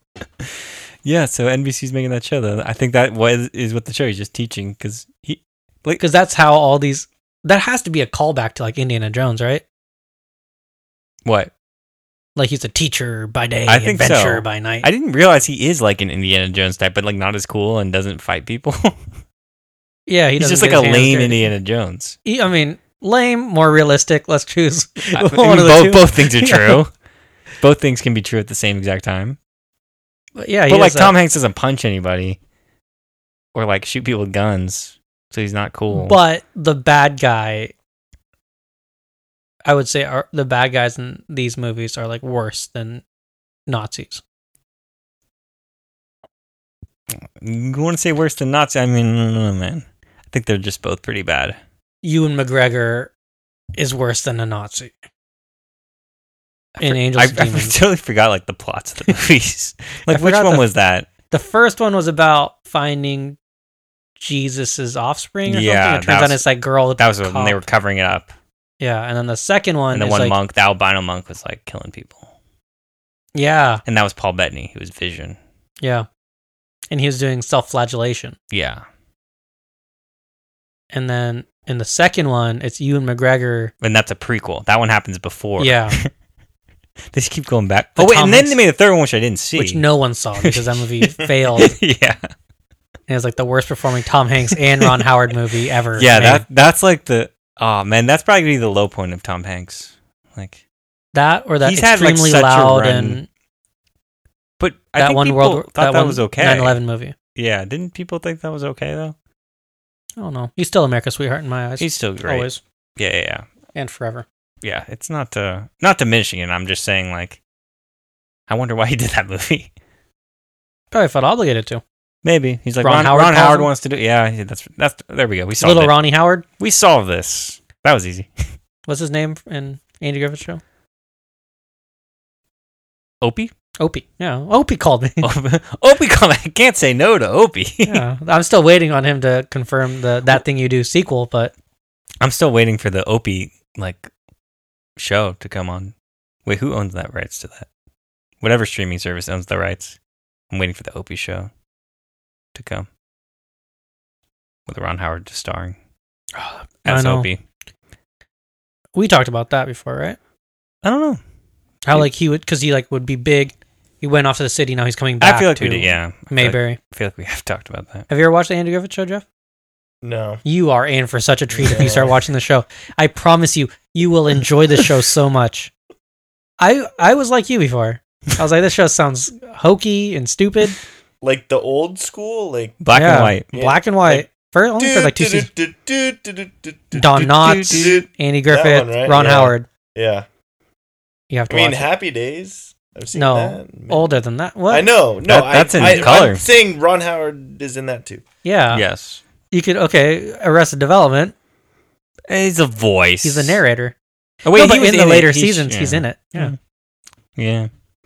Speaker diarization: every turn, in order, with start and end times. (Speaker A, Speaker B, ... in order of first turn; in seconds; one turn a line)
Speaker A: 0.4-6.0
Speaker B: 6.0-9.6
Speaker A: 11.2-11.5
Speaker B: 12.3-14.9
Speaker A: 13.7-19.0
Speaker B: 20.1-21.4
Speaker A: 20.4-22.2
Speaker B: 22.2-26.8
Speaker A: 25.1-26.9
Speaker A: 27.6-29.4
Speaker B: 30.4-31.1
Speaker A: 30.7-32.4
Speaker A: 33.5-36.1
Speaker B: 35.9-37.7
Speaker B: 39.6-43.0
Speaker B: 43.7-44.2
Speaker A: 47.1-51.6
Speaker B: 52.0-53.1
Speaker B: 53.8-55.0
Speaker A: 56.8-61.1
Speaker B: 56.8-57.8
Speaker B: 60.1-60.6
Speaker B: 61.3-63.4
Speaker B: 64.2-67.6
Speaker A: 65.5-66.4
Speaker A: 67.0-68.3
Speaker B: 68.8-70.4
Speaker A: 69.9-72.3
Speaker B: 73.3-73.8
Speaker A: 73.8-75.4
Speaker B: 75.8-76.1
Speaker B: 76.9-78.3
Speaker A: 78.5-78.8
Speaker B: 80.9-83.7
Speaker A: 83.8-86.1
Speaker B: 85.6-86.0
Speaker A: 87.1-89.8
Speaker B: 88.0-88.6
Speaker B: 89.5-91.8
Speaker A: 90.4-92.3
Speaker B: 93.1-96.4
Speaker A: 96.0-100.6
Speaker B: 101.1-103.3
Speaker A: 101.6-103.2
Speaker A: 104.6-106.8
Speaker B: 105.0-107.1
Speaker A: 107.3-109.2
Speaker B: 110.2-112.6
Speaker A: 111.8-113.4
Speaker B: 113.7-114.2
Speaker A: 114.6-117.4
Speaker A: 118.5-119.7
Speaker B: 120.9-121.8
Speaker A: 122.2-126.0
Speaker B: 122.8-123.7
Speaker B: 125.6-126.4
Speaker A: 126.6-128.5
Speaker B: 128.8-130.6
Speaker A: 133.2-133.5
Speaker B: 133.8-135.3
Speaker A: 135.2-138.0
Speaker B: 137.8-141.5
Speaker A: 142.2-144.1
Speaker A: 145.0-145.9
Speaker A: 146.4-147.7
Speaker A: 148.4-150.0
Speaker A: 150.5-151.5
Speaker A: 152.5-152.9
Speaker A: 154.7-155.8
Speaker B: 156.3-157.3
Speaker A: 156.8-157.4
Speaker B: 158.9-160.2
Speaker A: 160.8-161.2
Speaker B: 161.8-166.8
Speaker A: 165.2-168.1
Speaker B: 168.1-169.2
Speaker C: 170.0-170.4
Speaker B: 170.4-175.7
Speaker C: 171.5-172.2
Speaker B: 176.6-180.8
Speaker C: 181.2-182.8
Speaker A: 182.8-183.5
Speaker B: 182.9-185.5
Speaker C: 183.5-184.2
Speaker C: 184.8-190.2
Speaker B: 186.9-189.7
Speaker A: 187.0-188.1
Speaker B: 191.3-191.9
Speaker C: 191.5-194.1
Speaker B: 193.1-194.9
Speaker C: 194.7-198.2
Speaker A: 195.2-196.4
Speaker B: 198.4-198.8
Speaker A: 198.7-199.2
Speaker B: 199.5-201.3
Speaker A: 202.3-203.6
Speaker B: 203.2-203.9
Speaker A: 204.4-206.6
Speaker B: 204.5-206.5
Speaker A: 207.3-207.7